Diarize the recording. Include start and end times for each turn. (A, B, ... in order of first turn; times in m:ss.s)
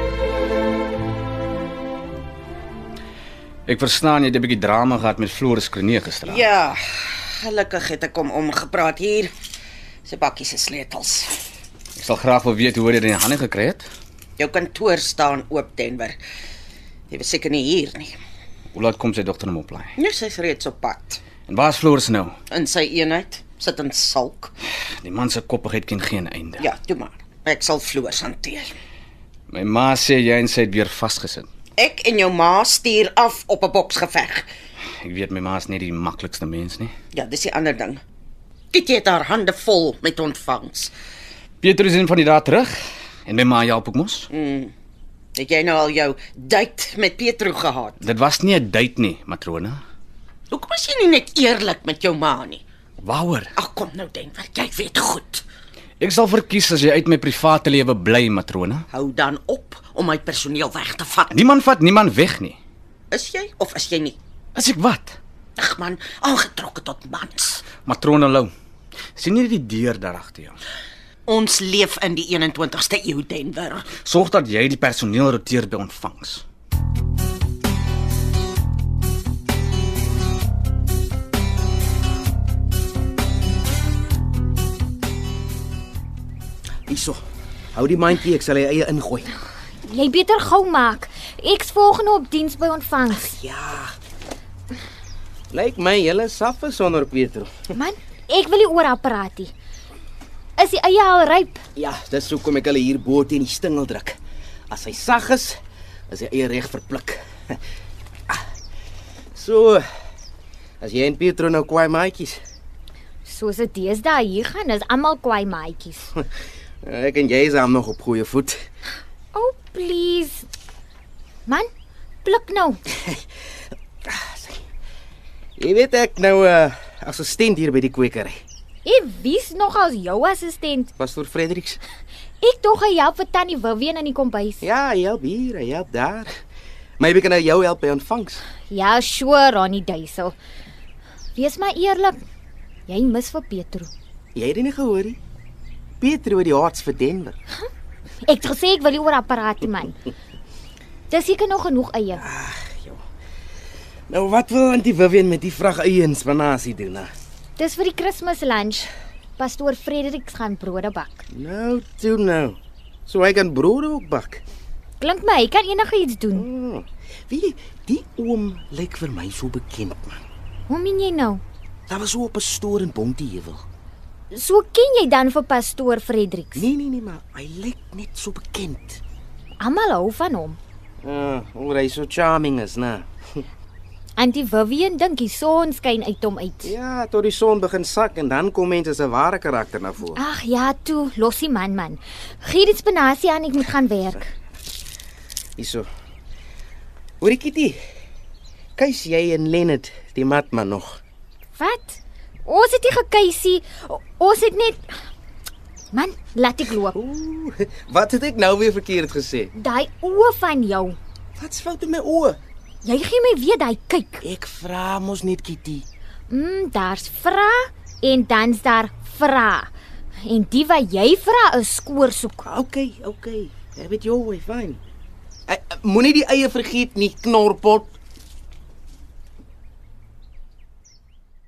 0:03.7-0:06.4 A
0:06.3-0:09.3 B
0:10.0-0:11.5 B
0:12.0-0:13.9 A
0:14.4-0:16.2 B
0:17.1-0:18.2 B
0:18.7-0:19.9 A
0:20.0-0:21.2 B
0:21.5-0:22.4 A
0:22.5-0:24.5 B
0:25.0-0:26.7 A
0:26.6-0:28.8 B
0:29.5-0:31.5 A
0:31.8-0:34.5 B
0:35.0-0:36.9 A
0:37.1-0:38.0 B
0:38.7-0:40.9 B
0:41.6-0:42.7 A
0:43.3-0:44.3 A
0:44.3-0:44.7 B
0:45.4-0:48.0 B
0:48.0-0:49.8 A
0:50.5-0:52.6 B
0:53.0-0:53.5 A
0:53.6-0:55.4 B
0:56.0-0:58.8 A
0:58.9-1:01.3 B
1:01.3-1:02.6 A
1:03.1-1:04.2 B
1:04.6-1:05.2 A
1:05.6-1:07.7 B
1:07.7-1:08.5 A
1:09.2-1:10.6 A
1:11.3-1:13.9 B
1:13.9-1:16.4 A
1:26.9-1:27.2 C
1:27.7-1:29.3 C
1:29.8-1:33.4 D
1:33.2-1:33.9 C
1:35.5-1:37.7 C
1:37.7-1:39.5 D
1:40.6-1:41.6 D
1:41.8-1:44.2 C
1:44.7-1:45.6 C
1:46.1-1:47.6 C
1:49.3-1:49.8 C
1:50.8-1:52.4 C
1:53.2-1:56.1 D
1:56.8-1:58.6 C
1:59.3-2:00.5 D
2:02.2-2:02.8 D
2:04.0-2:04.6 C
2:05.6-2:08.4 C
2:08.8-2:10.9 D
2:11.0-2:11.8 C
2:12.4-2:14.6 D
2:14.6-2:16.3 C
2:17.0-2:18.4 C
2:18.7-2:20.4 D
2:21.4-2:22.2 D
2:22.9-2:23.9 D
2:24.4-2:25.2 C
2:26.0-2:27.4 C
2:28.2-2:30.0 D
2:31.1-2:32.2 D
2:32.2-2:33.0 C
2:34.1-2:37.1 C
2:37.6-2:41.2 D
2:41.3-2:44.4 C
2:45.0-2:46.5 D
2:46.4-2:50.2 C
2:50.7-2:51.4 D
2:51.9-2:53.6 C
2:54.3-2:56.7 D
2:56.6-2:59.0 C
2:59.6-3:00.6 D
3:01.0-3:03.4 C
3:04.2-3:06.7 D
3:06.6-3:10.2 C
3:10.2-3:14.3 D
3:15.6-3:15.9 C
3:17.2-3:17.8 C
3:18.8-3:21.0 C
3:21.6-3:24.8 D
3:25.9-3:27.0 D
3:26.9-3:29.5 C
3:29.6-3:31.0 D
3:31.4-3:32.4 C
3:32.8-3:34.2 D
3:34.2-3:35.8 C
3:36.3-3:39.7 D
3:40.3-3:42.5 D
3:42.4-3:44.8 C
3:45.5-3:48.0 C